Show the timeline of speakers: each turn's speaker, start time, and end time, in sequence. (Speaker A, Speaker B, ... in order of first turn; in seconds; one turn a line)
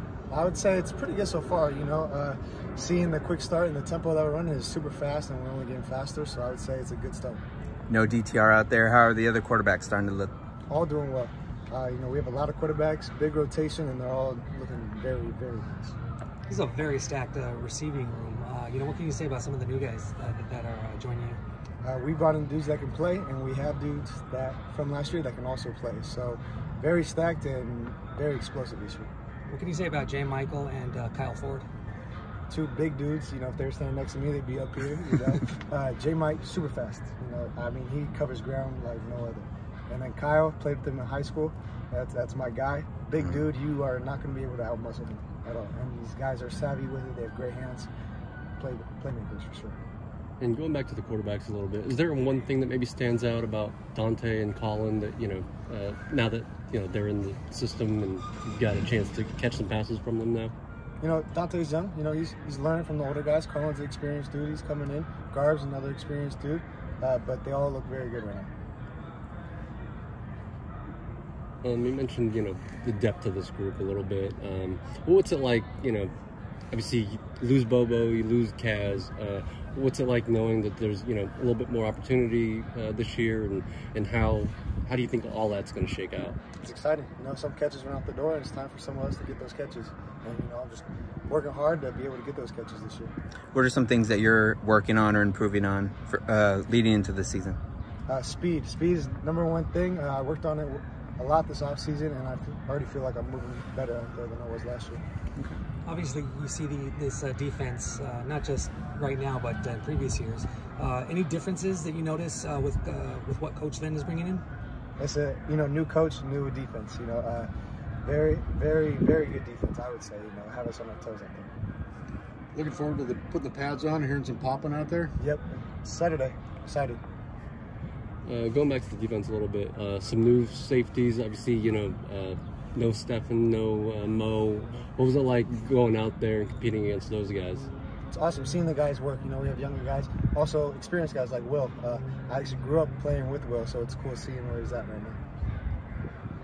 Speaker A: 0.3-7.4
Speaker B: 7.9-10.3
Speaker A: 10.7-15.9
Speaker C: 16.5-21.4
Speaker A: 21.8-29.1
Speaker C: 29.5-31.7
Speaker A: 32.5-47.9
Speaker A: 48.6-49.8
Speaker D: 50.4-60.5
Speaker A: 61.0-68.5
Speaker D: 71.6-76.1
Speaker D: 76.7-86.4
Speaker A: 86.6-93.1
Speaker B: 93.5-97.6
Speaker A: 98.1-105.0
Speaker C: 105.8-114.4
Speaker A: 115.0-117.5
Speaker A: 118.0-121.5
Speaker E: 122.5-125.1
Speaker A: 125.2-127.0
Speaker D: 128.2-137.7
Speaker A: 138.1-145.2